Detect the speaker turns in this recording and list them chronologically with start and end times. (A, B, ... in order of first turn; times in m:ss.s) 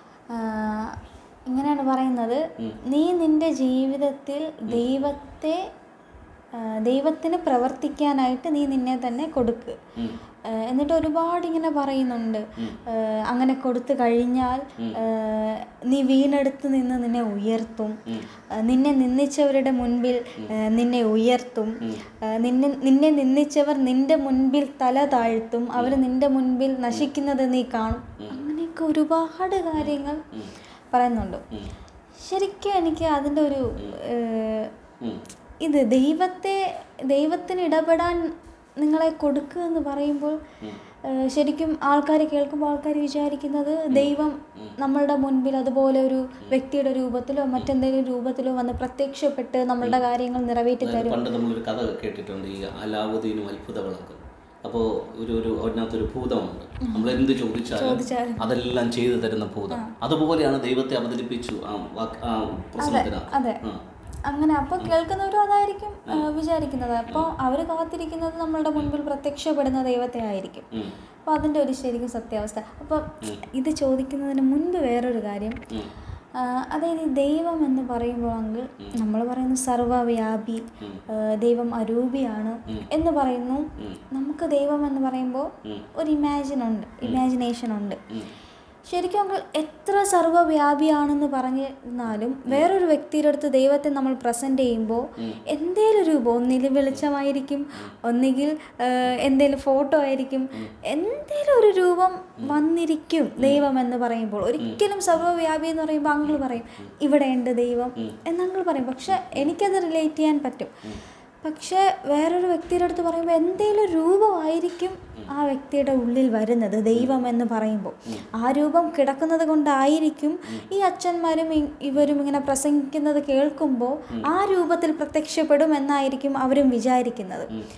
0:00.3-0:01.0 A
0:01.5-0:05.6 A
0:04.7-0:04.9 B
0:06.5-0:09.8 A
0:10.5-0:18.0 A
0:18.6-0:30.2 A
0:28.2-0:28.4 B
0:29.8-0:30.5 B
0:30.9-0:31.4 A
0:32.2-0:34.7 A
0:35.6-0:38.2 A
0:38.8-0:40.4 A
0:41.1-0:51.2 A
0:43.9-0:44.8 B
0:50.8-1:03.8 B
0:56.9-0:58.4 A
1:02.8-1:03.6 A
1:04.3-1:10.7 A
1:11.2-1:15.6 A
1:16.4-1:28.0 A
1:28.8-1:50.7 A
1:43.4-1:43.6 B
1:46.2-1:46.9 B
1:49.1-1:49.5 B
1:51.4-2:07.5 A